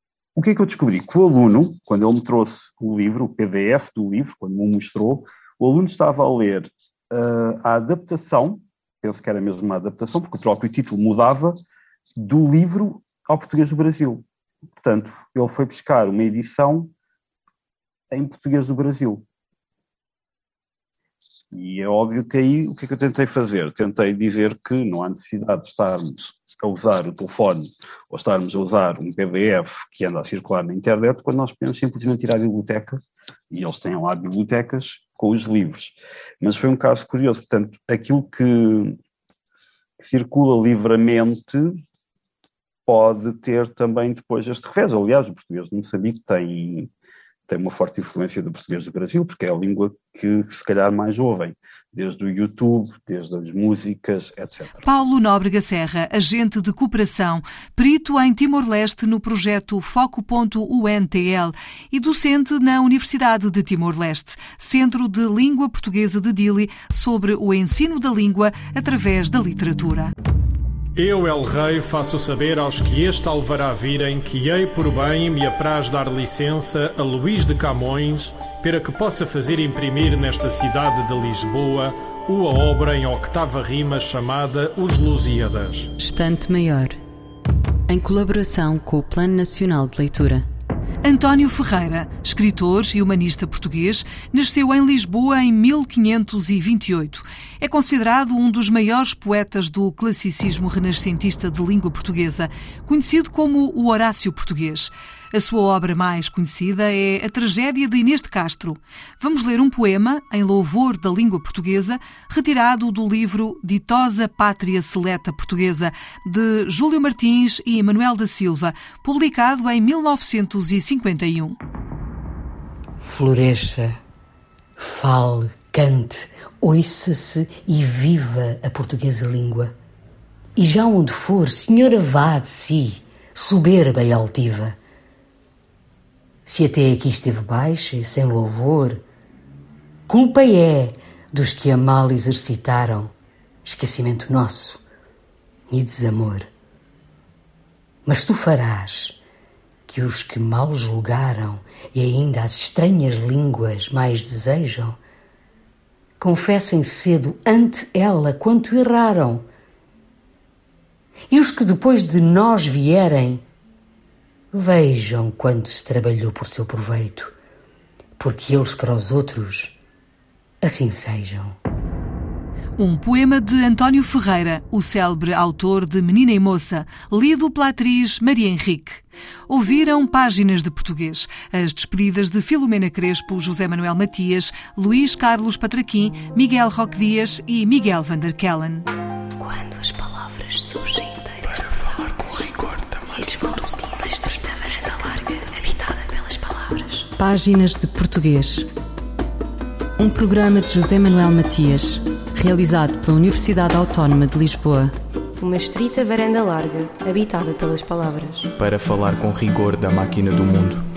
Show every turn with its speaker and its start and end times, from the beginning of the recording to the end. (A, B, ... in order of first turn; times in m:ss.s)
0:00.3-0:11.6 A
0:12.2-0:14.2 A
0:14.8-0:16.9 A
0:18.1-0:19.2 A
0:21.5-0:39.0 A
0:40.0-0:41.8 A
0:42.8-0:46.9 A
0:47.5-0:54.9 A
0:54.8-1:10.1 B
1:11.0-1:25.9 C
1:26.0-1:27.0 D
1:27.9-1:30.4 D
1:31.0-2:01.6 B
2:03.0-2:04.0 E
2:04.8-2:09.7 E
2:10.6-2:14.8 E
2:16.4-2:19.0 E
2:20.1-2:23.1 E
2:23.6-2:24.8 E
2:25.7-2:26.5 E
2:28.0-2:29.2 E
2:29.9-2:35.0 E
2:36.2-2:39.4 E
2:41.3-2:43.4 E
2:44.5-2:47.3 E
2:48.2-2:49.8 E
2:50.6-2:51.6 E
2:52.8-3:08.8 B
3:09.4-3:17.1 F
3:17.2-3:18.7 D
3:20.0-3:24.9 D
3:25.4-3:28.5 F
3:28.6-3:30.8 G